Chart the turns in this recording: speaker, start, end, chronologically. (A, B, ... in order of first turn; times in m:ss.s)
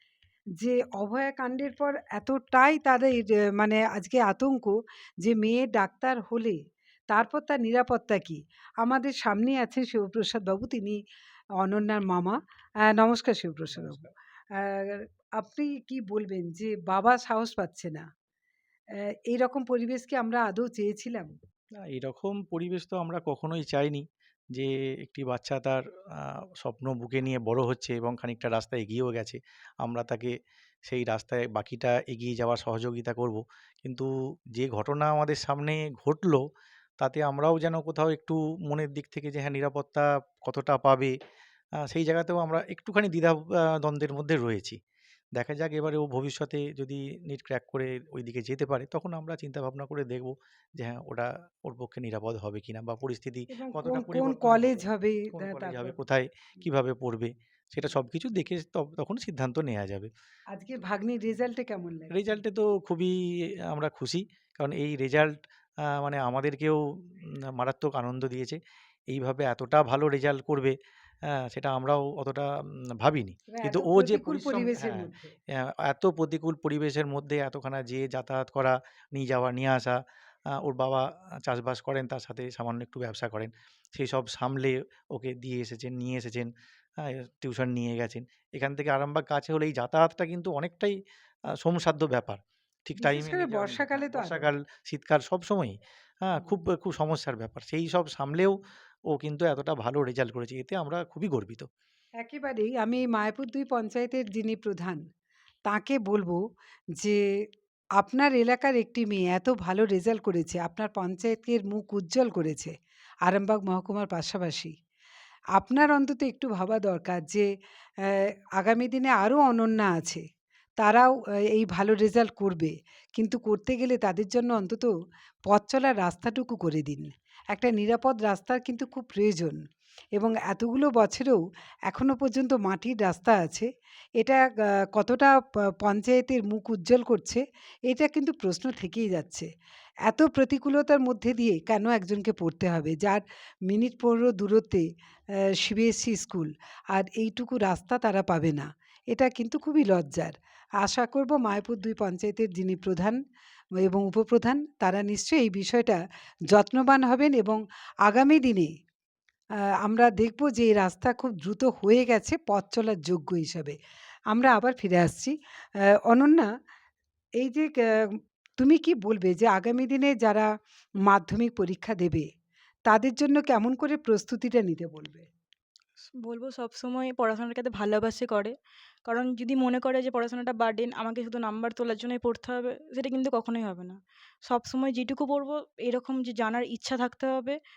0:00.6-0:06.6 A
0:07.1-0:11.0 A
0:11.6-0:12.4 A
0:12.9-0:14.1 A
0:14.6-0:18.0 A
0:19.3-0:21.3 A
0:21.9-0:30.3 B
0:30.9-0:36.4 B
0:37.0-0:41.1 B
0:41.9-0:44.8 B
0:45.4-0:54.8 B
0:53.5-0:56.0 A
0:55.4-1:00.1 B
1:00.5-1:02.4 A
1:02.1-1:03.2 B
1:03.7-1:05.3 B
1:06.0-1:06.8 B
1:07.6-1:10.8 B
1:11.4-1:12.5 B
1:13.0-1:14.8 B
1:13.5-1:15.3 A
1:15.6-1:20.0 B
1:20.6-1:26.5 B
1:27.0-1:31.0 B
1:31.6-1:35.8 B
1:33.0-1:34.5 A
1:36.5-1:38.6 B
1:39.1-1:41.7 B
1:42.2-1:45.0 A
1:45.7-1:46.4 A
1:48.0-1:52.7 A
1:53.3-1:54.7 A
1:55.6-1:57.5 A
1:58.1-2:00.2 A
2:00.8-2:04.9 A
2:05.5-2:09.6 A
2:10.2-2:14.4 A
2:14.9-2:19.5 A
2:20.1-2:24.9 A
2:25.6-2:33.2 A
2:33.8-2:38.7 A
2:39.8-2:43.8 A
2:44.3-2:45.4 A
2:46.1-2:46.5 A
2:47.4-2:50.5 A
2:51.1-2:52.3 A
2:52.9-2:55.3 A
2:56.2-2:58.5 C
2:59.1-3:07.6 C